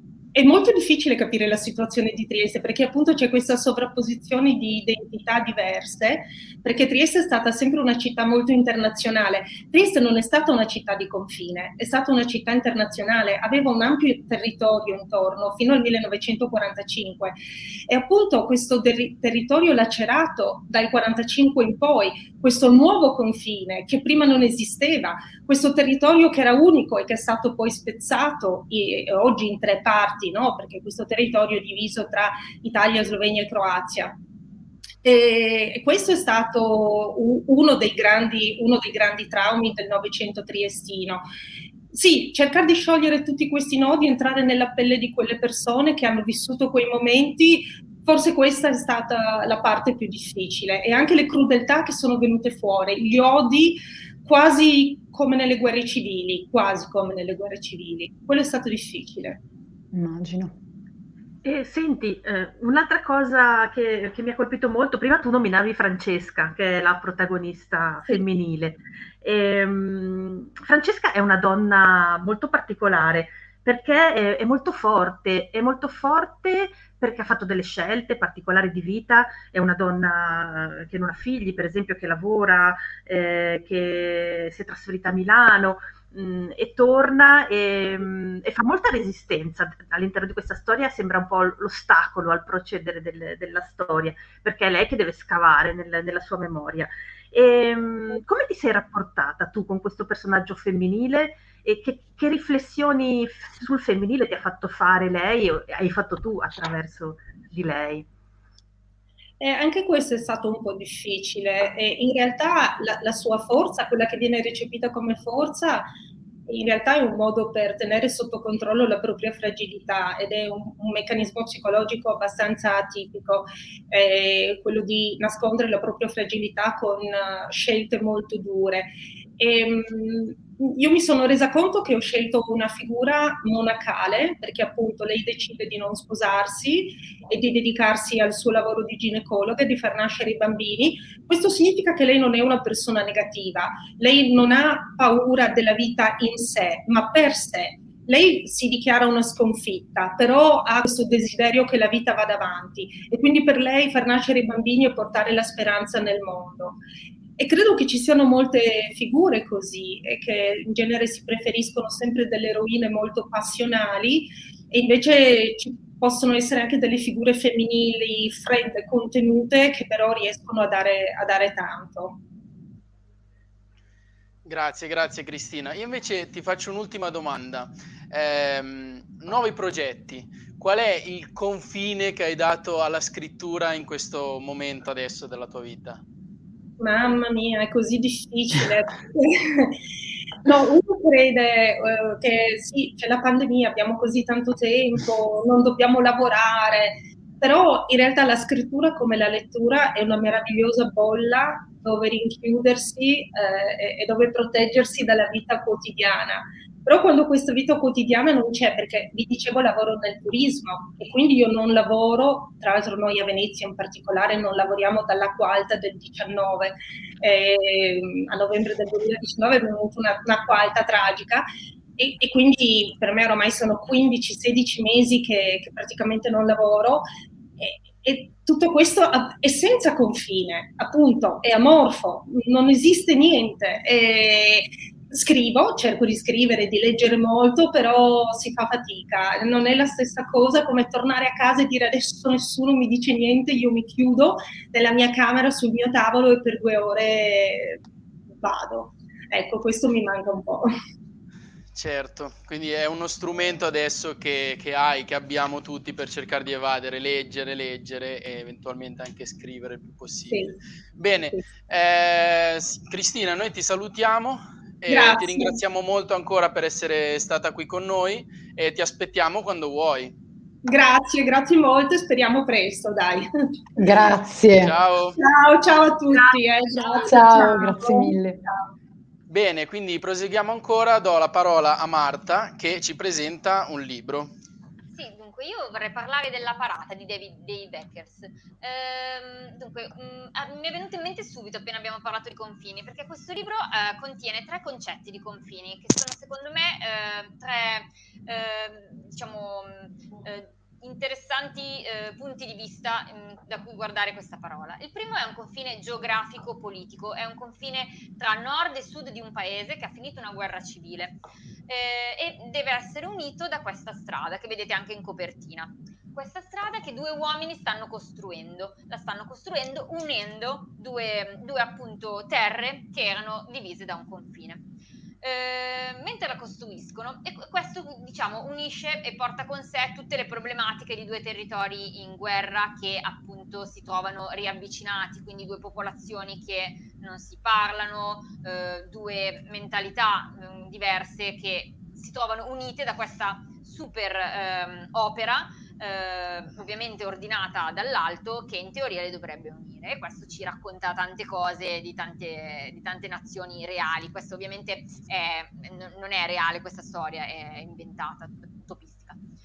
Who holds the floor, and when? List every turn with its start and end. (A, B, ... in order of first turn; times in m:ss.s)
0:00.3-0:34.2 A
0:35.0-0:41.2 A
0:41.9-0:59.4 A
0:59.9-1:00.6 B
1:01.4-1:48.1 C
1:49.4-1:55.9 A
1:56.5-2:36.8 A
2:37.4-2:52.2 A
2:54.4-3:06.0 D
3:06.8-3:09.8 A
3:10.4-3:41.5 A
3:42.0-3:47.0 A
3:47.6-4:07.8 A
4:08.4-4:10.7 A
4:11.8-4:20.4 D
4:20.3-4:20.6 A
4:21.0-4:30.1 D
4:24.9-4:25.6 A
4:30.6-4:34.1 A
4:33.8-4:34.7 B
4:34.6-4:35.2 D
4:35.2-4:38.6 A
4:37.0-4:38.4 B
4:39.3-4:44.3 D
4:44.9-5:24.6 E
5:25.2-5:59.2 E